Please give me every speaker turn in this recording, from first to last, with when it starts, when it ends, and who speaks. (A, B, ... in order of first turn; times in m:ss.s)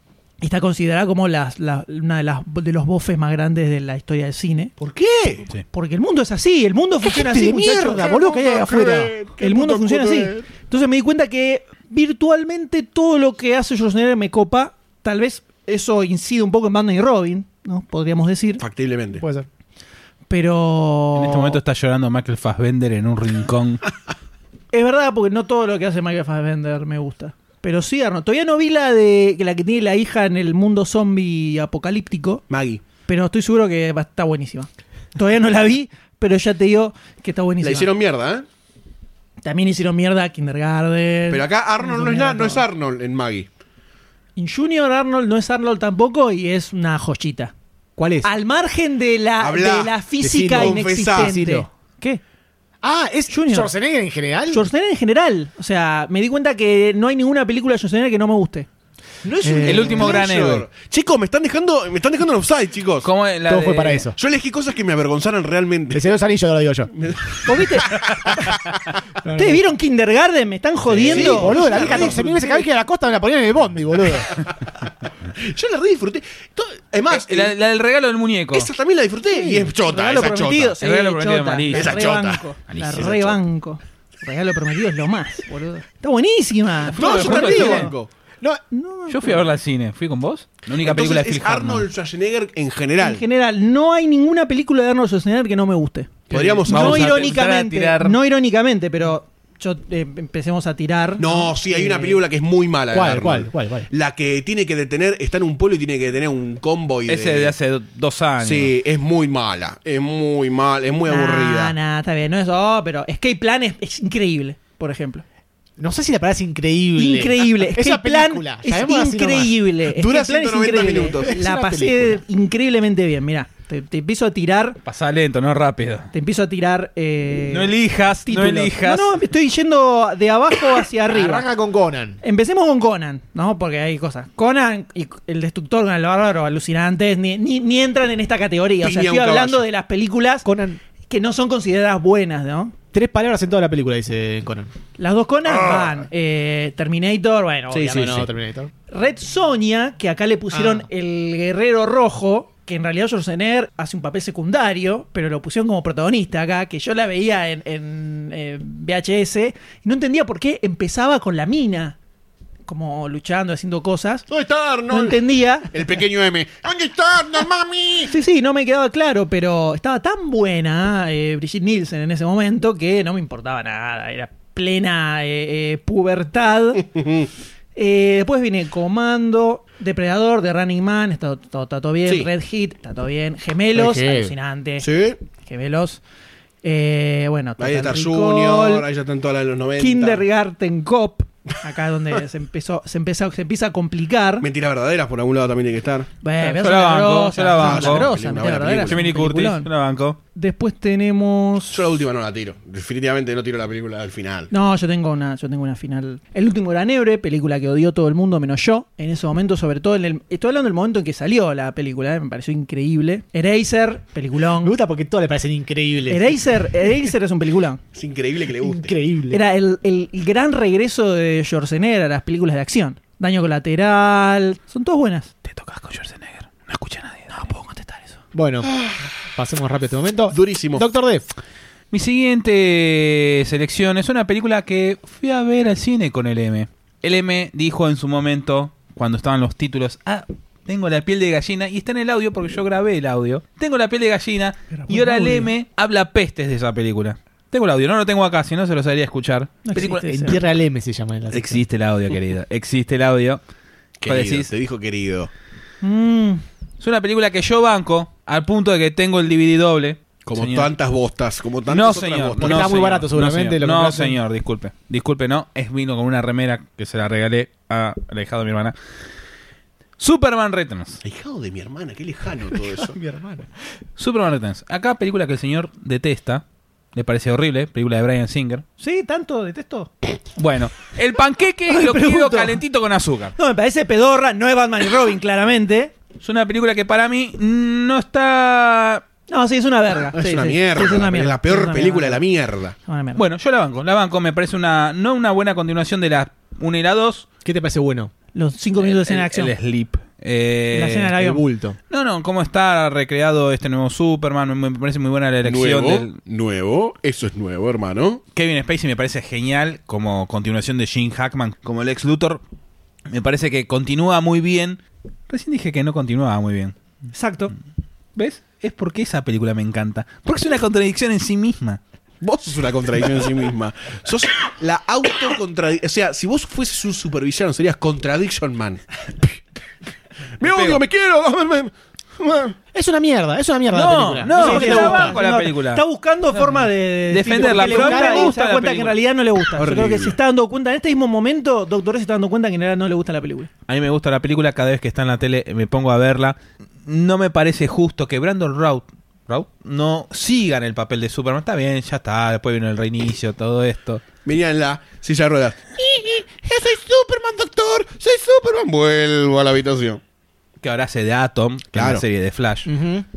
0:00.4-0:04.7 A
0:04.8-0:05.5 B
0:05.7-0:18.6 A
0:07.1-0:10.5 B
0:18.6-0:19.2 B
0:19.1-0:19.5 C
0:20.3-0:21.6 A
0:21.2-0:23.8 D
0:24.7-0:32.4 A
0:32.5-0:32.8 B
0:33.1-0:37.9 A
0:37.6-0:38.4 B
0:39.4-0:42.6 A
0:41.3-0:43.5 B
0:44.4-0:47.5 A
0:48.0-0:48.3 C
0:48.2-0:52.2 A
0:49.4-0:51.3 B
0:50.2-0:51.7 C
0:52.8-0:54.7 C
0:53.3-0:53.7 A
0:54.5-0:58.7 A
0:59.2-1:00.2 C
0:59.2-1:03.1 B
0:59.6-1:00.7 D
1:03.0-1:04.0 D
1:03.5-1:04.2 C
1:04.2-1:06.1 B
1:05.9-1:06.9 C
1:06.9-1:08.8 B
1:07.4-1:08.0 A
1:09.2-1:09.6 C
1:09.3-1:12.0 A
1:10.9-1:12.6 B
1:11.1-1:14.4 C
1:15.3-1:17.5 B
1:17.1-1:18.7 D
1:18.5-1:20.8 B
1:19.3-1:19.7 C
1:19.8-1:27.9 A
1:20.8-1:22.1 D
1:21.7-1:22.4 B
1:22.7-1:23.4 D
1:26.9-1:27.9 D
1:26.9-1:28.1 B
1:27.2-1:27.7 C
1:28.7-1:29.4 A
1:29.1-1:31.9 D
1:30.8-1:33.2 B
1:33.0-1:42.2 A
1:36.3-1:37.4 B
1:36.6-1:38.2 D
1:41.2-1:47.5 B
1:42.9-1:43.9 C
1:47.1-1:48.7 D
1:48.4-1:51.7 B
1:51.1-1:55.2 A
1:55.8-1:59.5 C
1:57.0-2:04.8 A
1:59.9-2:01.4 B
2:01.3-2:02.2 C
2:04.9-2:06.1 D
2:06.1-2:07.7 A
2:07.5-2:09.1 D
2:08.2-2:11.4 A
2:11.1-2:12.2 C
2:12.2-2:20.5 A
2:18.8-2:19.6 B
2:20.4-2:20.8 C
2:21.1-2:22.7 A
2:22.9-2:24.7 C
2:25.0-2:28.2 A
2:25.5-2:26.0 B
2:27.7-2:28.2 B
2:27.8-2:28.7 C
2:28.9-2:42.0 A
2:30.5-2:30.9 C
2:42.7-2:44.2 A
2:44.3-2:48.1 B
2:44.9-2:45.7 A
2:48.0-2:56.9 A
2:56.9-2:57.3 B
2:57.7-3:04.9 A
3:03.7-3:04.3 C
3:04.8-3:05.2 B
3:05.4-3:06.0 A
3:06.6-3:08.8 A
3:07.6-3:10.2 B
3:09.8-3:14.5 A
3:14.4-3:16.1 B
3:16.2-3:19.7 A
3:16.4-3:18.1 D
3:17.6-3:19.0 B
3:18.9-3:20.2 D
3:20.3-3:21.8 A
3:21.7-3:24.5 B
3:24.5-3:34.7 A
3:34.6-3:36.6 C
3:36.1-3:37.8 A
3:37.9-3:38.9 B
3:38.6-3:39.4 C
3:39.3-3:45.3 A
3:45.4-3:47.4 D
3:47.3-3:48.2 A
3:48.3-3:48.7 C
3:49.3-3:51.3 C
3:50.3-3:50.9 B
3:51.9-4:10.3 D
4:04.7-4:05.5 A
4:09.6-4:10.4 A
4:09.8-4:11.6 C
4:11.3-4:13.4 D
4:14.0-4:15.3 B
4:14.0-4:14.5 D
4:15.8-4:16.4 A
4:16.8-4:20.7 D
4:20.2-4:22.8 B
4:21.7-4:28.7 D
4:22.4-4:24.2 C
4:30.0-4:31.0 D
4:31.0-4:33.0 B
4:32.5-4:33.5 C
4:34.0-4:36.4 D
4:36.9-4:38.6 D
4:38.8-4:39.9 A
4:40.4-4:43.3 D
4:41.7-4:42.6 A
4:43.4-4:45.9 A
4:46.2-4:49.0 D
4:49.3-4:52.2 A
4:50.1-4:52.8 B
4:52.9-4:53.2 A
4:53.1-4:57.3 D
4:57.4-4:58.1 C
4:58.3-4:59.5 A
4:58.8-5:01.1 D
5:00.7-5:01.4 A
5:01.1-5:01.8 C
5:01.9-5:06.2 D
5:05.4-5:08.2 B
5:08.3-5:12.4 D
5:13.1-5:16.7 D
5:17.1-5:17.5 A
5:18.2-5:21.8 D
5:22.2-5:29.4 B
5:30.4-5:32.6 B
5:30.4-5:30.8 D
5:32.7-5:35.2 C
5:33.7-5:35.8 D
5:34.3-5:43.5 A
5:36.3-5:39.0 D
5:37.3-5:38.3 C
5:39.6-5:40.2 B
5:43.7-5:54.0 D
5:54.2-6:00.0 B
6:00.6-6:02.7 D
6:01.7-6:02.0 B
6:02.6-6:03.0 C